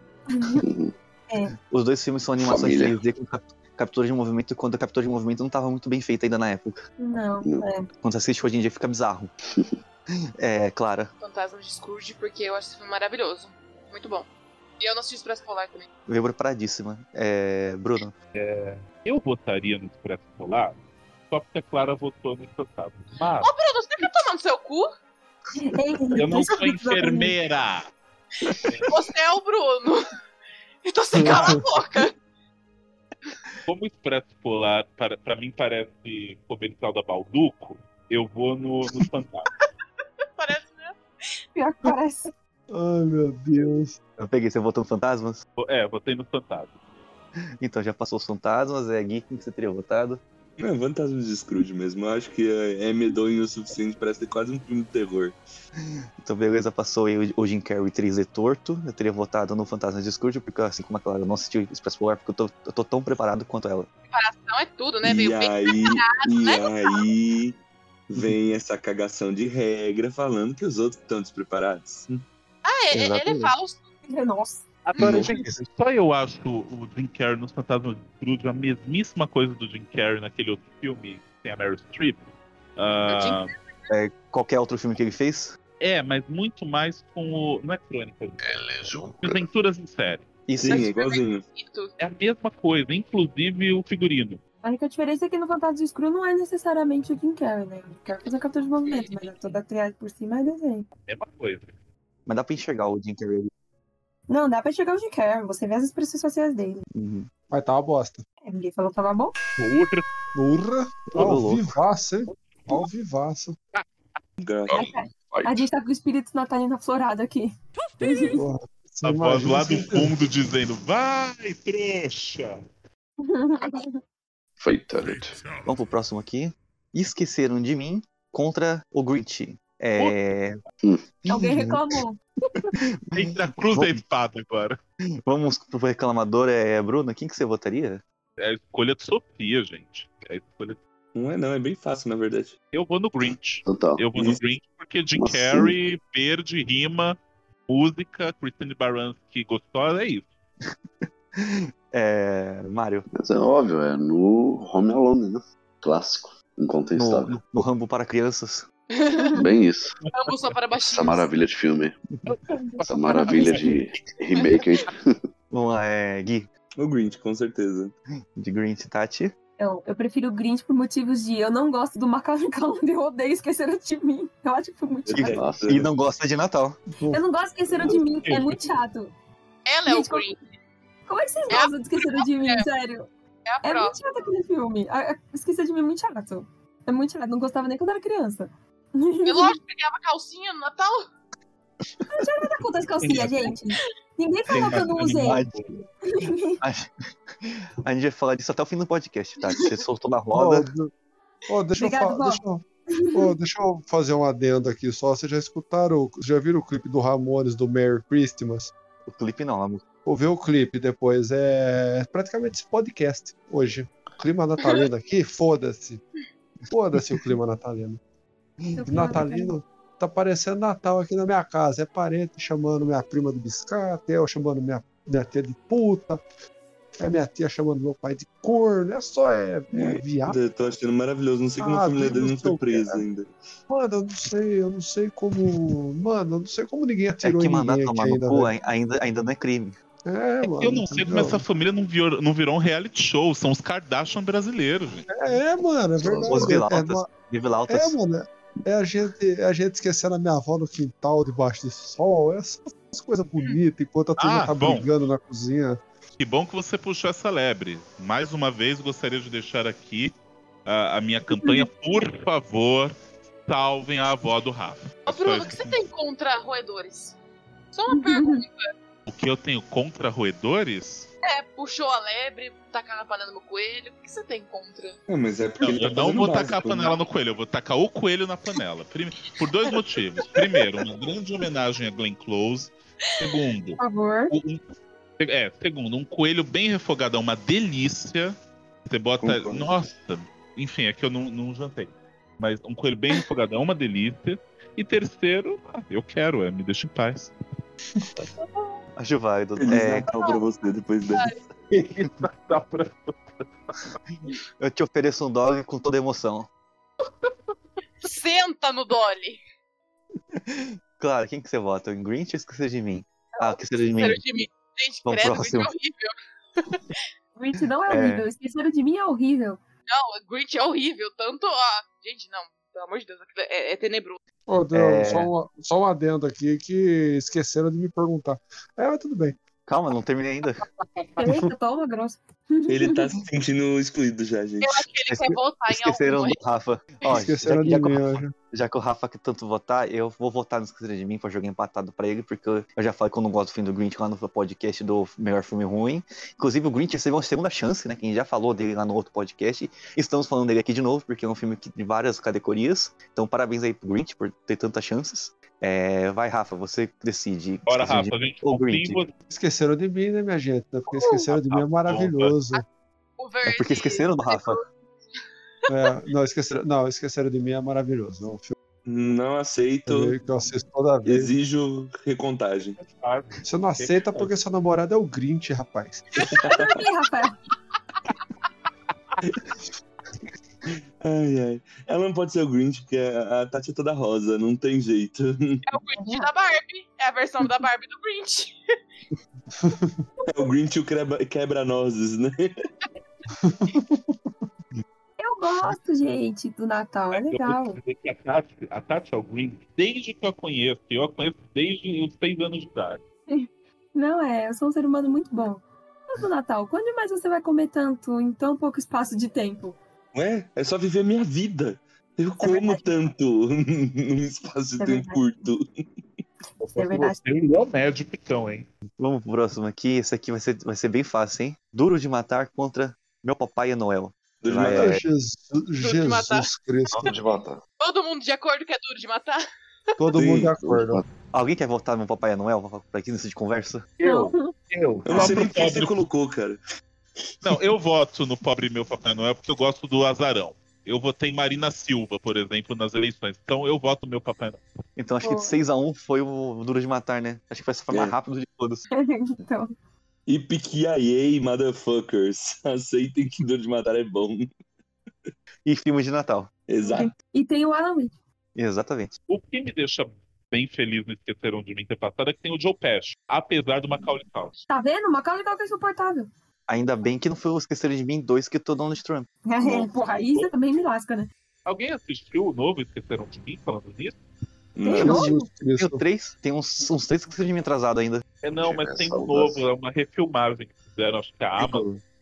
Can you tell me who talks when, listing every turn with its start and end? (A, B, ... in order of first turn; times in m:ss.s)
0:00.3-0:00.6 A
0:00.6-0:00.9 B
0:01.7-0:06.8 C
0:02.4-0:02.9 B
0:07.0-0:07.9 A
0:08.0-0:09.3 C
0:09.5-0:09.8 B
0:10.4-0:11.1 C
0:11.2-0:14.3 D
0:14.8-0:15.9 D
0:16.1-0:18.2 C
0:18.4-0:20.8 E
0:21.3-0:23.5 E
0:23.4-0:24.9 D
0:25.6-0:27.3 A
0:26.2-0:27.9 E
0:28.6-0:28.9 E
0:28.9-0:30.0 D
0:30.8-0:32.1 D
0:31.1-0:31.6 F
0:33.7-0:39.5 E
0:40.4-0:41.0 D
0:41.6-0:42.3 A
0:42.7-0:44.0 F
0:44.2-0:45.4 C
0:45.6-0:46.7 E
0:47.6-0:50.2 C
0:50.6-0:55.4 G
0:55.8-1:03.9 C
1:04.1-1:07.0 D
1:05.0-1:07.6 G
1:08.1-1:12.2 G
1:12.6-1:13.8 D
1:12.9-1:13.5 C
1:14.1-1:14.6 A
1:14.9-1:22.2 E
1:15.0-1:15.6 C
1:15.0-1:15.3 G
1:22.8-1:23.5 E
1:23.1-1:23.6 D
1:23.9-1:25.6 C
1:25.8-1:30.2 E
1:28.4-1:29.5 B
1:30.5-1:30.9 C
1:30.6-1:31.4 G
1:30.7-1:31.9 D
1:32.0-1:34.4 E
1:34.6-1:40.9 A
1:41.1-1:41.7 E
1:42.3-1:43.5 C
1:44.3-1:46.8 A
1:46.9-1:47.3 C
1:47.5-1:48.2 F
1:48.4-1:49.4 A
1:49.6-1:50.1 E
1:50.4-1:53.6 F
1:51.1-1:51.7 C
1:54.4-1:55.0 G
1:54.7-1:58.4 A
1:58.3-2:00.2 F
1:59.0-2:02.6 E
2:03.2-2:04.0 A
2:04.6-2:05.4 B
2:05.6-2:10.6 C
2:11.3-2:11.8 C
2:11.3-2:12.2 A
2:13.1-2:14.0 C
2:13.2-2:14.8 E
2:15.2-2:18.0 C
2:18.4-2:20.8 E
2:21.2-2:22.6 G
2:22.7-2:27.2 E
2:23.2-2:24.0 B
2:24.2-2:24.4 G
2:25.2-2:25.8 B
2:27.7-2:30.3 E
2:31.4-2:33.1 C
2:33.2-2:37.4 B
2:37.0-2:38.7 C
2:38.9-2:39.4 D
2:39.4-2:40.0 B
2:40.1-2:41.3 D
2:40.8-2:42.0 B
2:42.3-2:43.7 E
2:42.6-2:43.5 A
2:42.8-2:45.2 B
2:45.5-2:46.5 C
2:46.8-2:47.9 G
2:48.4-2:49.3 C
2:49.6-2:55.4 A
2:55.1-2:55.9 G
2:55.1-2:56.8 C
2:55.4-2:55.7 B
2:57.0-2:57.2 F
2:57.1-2:59.1 A
2:58.2-2:58.6 E
2:59.7-3:00.5 D
2:59.9-3:00.2 A
3:01.1-3:03.1 A
3:01.5-3:02.7 D
3:03.5-3:04.0 D
3:03.6-3:09.6 A
3:09.2-3:11.0 D
3:12.1-3:15.4 A
3:14.5-3:15.7 E
3:14.6-3:15.8 C
3:16.1-3:16.6 A
3:16.6-3:16.9 C
3:17.4-3:20.7 C
3:20.3-3:20.9 F
3:21.5-3:28.7 F
3:21.8-3:23.3 A
3:29.1-3:29.8 C
3:30.1-3:36.0 F
3:36.7-3:38.0 F
3:38.7-3:39.5 A
3:38.9-3:46.2 F
3:47.0-3:50.4 F
3:49.7-3:53.4 G
3:51.6-3:53.0 F
3:53.7-3:58.5 F
3:57.2-3:59.8 C
4:00.1-4:01.4 F
4:00.4-4:05.1 E
4:05.1-4:07.1 F
4:06.0-4:06.5 B
4:06.3-4:08.0 C
4:07.7-4:15.8 F
4:14.2-4:14.9 E
4:16.2-4:20.1 E
4:20.7-4:23.0 E
4:21.3-4:21.7 A
4:23.5-4:25.6 E
4:25.1-4:27.2 D
4:27.7-4:28.7 D
4:27.9-4:28.4 A
4:29.1-4:31.1 E
4:31.2-4:35.0 D
4:35.1-4:37.0 G
4:35.6-4:44.6 E
4:40.2-4:40.6 D
4:43.8-4:44.3 A
4:45.2-4:48.4 E
4:48.9-4:57.3 E
4:49.2-4:49.7 G
4:58.4-4:58.8 D
4:59.0-5:00.1 C
4:59.6-5:01.3 G
5:01.7-5:03.9 E
5:04.6-5:06.5 C
5:08.0-5:09.4 D
5:10.4-5:14.2 C
5:14.0-5:17.0 D
5:15.0-5:15.7 C
5:17.4-5:19.6 A
5:17.9-5:18.3 C
5:19.9-5:24.2 D
5:24.5-5:29.4 F
5:24.7-5:25.3 C
5:29.7-5:30.6 C
5:31.2-5:33.0 A
5:32.7-5:34.8 G
5:34.6-5:36.4 D
5:35.1-5:59.0 C
5:37.1-5:38.3 F
5:57.7-5:59.1 E
5:59.3-6:02.6 F
6:00.9-6:01.3 D
6:01.3-6:02.4 E
6:03.2-6:05.2 D
6:03.4-6:04.6 C
6:05.7-6:08.5 F
6:08.9-6:10.2 G
6:09.9-6:11.3 F
6:11.0-6:12.8 G
6:12.8-6:14.3 E
6:13.4-6:16.1 F
6:16.3-6:16.8 G
6:16.4-6:17.4 A
6:21.0-6:25.6 G
6:25.7-6:28.6 D
6:26.0-6:26.3 A
6:29.6-6:30.0 F
6:30.3-6:32.5 G
6:33.4-6:34.2 F
6:35.2-6:37.8 A
6:37.1-6:43.0 E
6:43.3-6:49.8 A
6:50.1-6:55.9 G
6:52.4-6:52.9 A
6:54.8-6:55.2 A
6:56.6-6:58.7 E
6:56.7-6:57.2 A
6:59.0-7:05.0 C
7:04.4-7:05.0 G
7:04.8-7:07.1 F
7:05.8-7:06.5 D
7:07.0-7:07.6 B
7:07.8-7:09.4 D
7:10.0-7:11.0 F
7:10.2-7:10.6 G
7:10.6-7:11.0 B
7:11.3-7:13.9 C
7:14.0-7:15.9 E
7:14.0-7:14.5 A
7:15.0-7:16.6 G
7:17.4-7:24.6 E
7:25.0-7:28.9 C
7:25.2-7:25.6 A
7:28.9-7:29.8 A
7:30.3-7:34.5 G
7:35.6-7:36.5 C
7:36.7-7:37.1 G
7:36.8-7:38.2 A
7:38.6-7:39.1 C
7:39.3-7:44.5 E
7:44.7-7:46.3 A
7:46.7-7:49.3 C
7:49.5-7:51.3 A
7:51.7-7:54.2 E
7:54.8-7:55.3 G
7:54.8-7:55.4 A
7:55.0-7:56.0 F
7:55.1-7:58.2 C
7:58.4-8:01.9 E
7:58.6-7:59.7 B
8:01.6-8:02.0 C